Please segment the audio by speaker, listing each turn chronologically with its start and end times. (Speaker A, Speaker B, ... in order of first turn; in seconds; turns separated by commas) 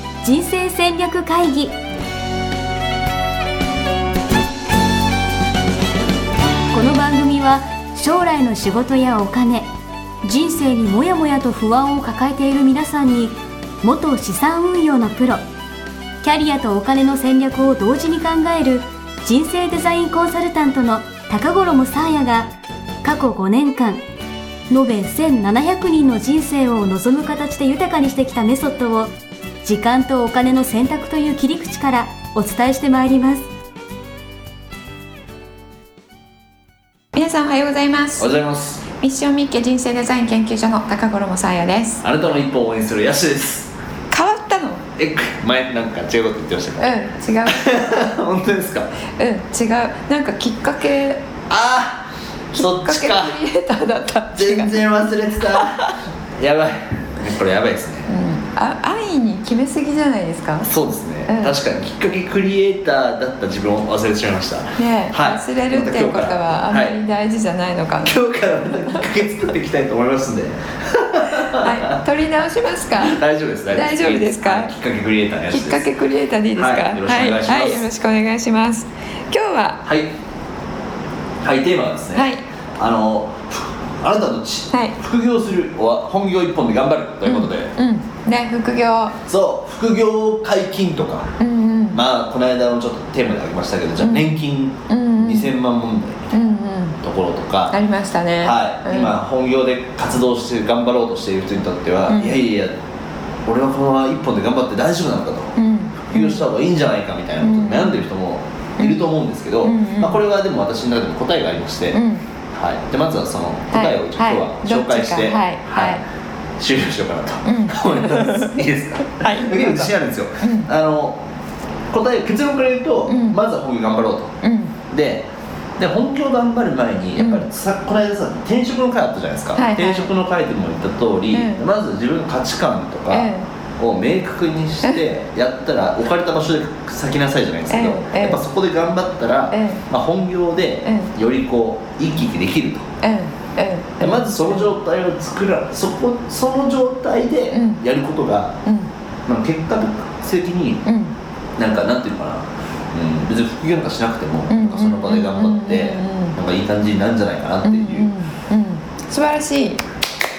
Speaker A: 0.2-1.8, Speaker A: 6.7-9.7, Speaker A: 10.2-15.4, Speaker A: 16.2-22.5, Speaker A: 23.0-24.0, Speaker A: 24.7-29.1, Speaker A: 29.6-33.4, Speaker B: 37.1-38.3, Speaker C: 38.2-38.8, Speaker B: 39.0-42.0, Speaker C: 42.0-43.7, Speaker B: 44.1-44.8, Speaker C: 45.0-46.9, Speaker B: 46.8-48.1, Speaker C: 47.5-48.9, Speaker B: 49.2-51.2, Speaker C: 51.5-53.4, Speaker B: 52.5-54.8, Speaker C: 54.3-58.1, Speaker B: 55.5-55.9, Speaker B: 58.1-60.7, Speaker C: 60.6-67.0, Speaker B: 61.3-61.5, Speaker B: 64.8-68.2, Speaker C: 68.0-72.0, Speaker B: 71.3-73.2, Speaker C: 73.0-75.9, Speaker B: 73.7-74.7, Speaker B: 75.5-79.8, Speaker C: 76.5-77.9, Speaker C: 79.8-80.1, Speaker C: 81.4-87.7, Speaker B: 82.1-82.4, Speaker B: 87.2-89.2, Speaker C: 89.2-91.3, Speaker B: 91.4-92.0, Speaker C: 91.9-96.3, Speaker B: 94.0-94.3, Speaker B: 94.9-95.5, Speaker B: 96.3-97.0, Speaker C: 97.0-97.7, Speaker B: 97.7-99.2, Speaker C: 98.4-102.8, Speaker B: 102.1-102.4, Speaker C: 103.4-105.5, Speaker B: 105.5-106.5, Speaker C: 106.1-112.0, Speaker B: 107.4-108.0, Speaker B: 108.8-110.2, Speaker B: 111.9-112.2, Speaker C: 112.5-116.0, Speaker B: 113.7-116.0, Speaker C: 116.6-121.2, Speaker B: 117.4-118.6, Speaker B: 119.2-120.7, Speaker C: 121.9-124.3, Speaker B: 123.1-123.4, Speaker B: 124.4-124.7, Speaker C: 124.9-142.9, Speaker B: 127.2-127.4, Speaker B: 129.6-130.1, Speaker B: 131.3-131.6, Speaker B: 133.1-133.4, Speaker B: 137.7-138.4, Speaker B: 139.5-139.8, Speaker B: 140.8-141.1, Speaker B: 143.0-144.7, Speaker C: 144.0-148.6, Speaker B: 147.5-147.8, Speaker C: 149.3-150.8, Speaker B: 150.8-151.1, Speaker C: 151.6-158.1, Speaker B: 154.5-156.4, Speaker B: 157.6-159.8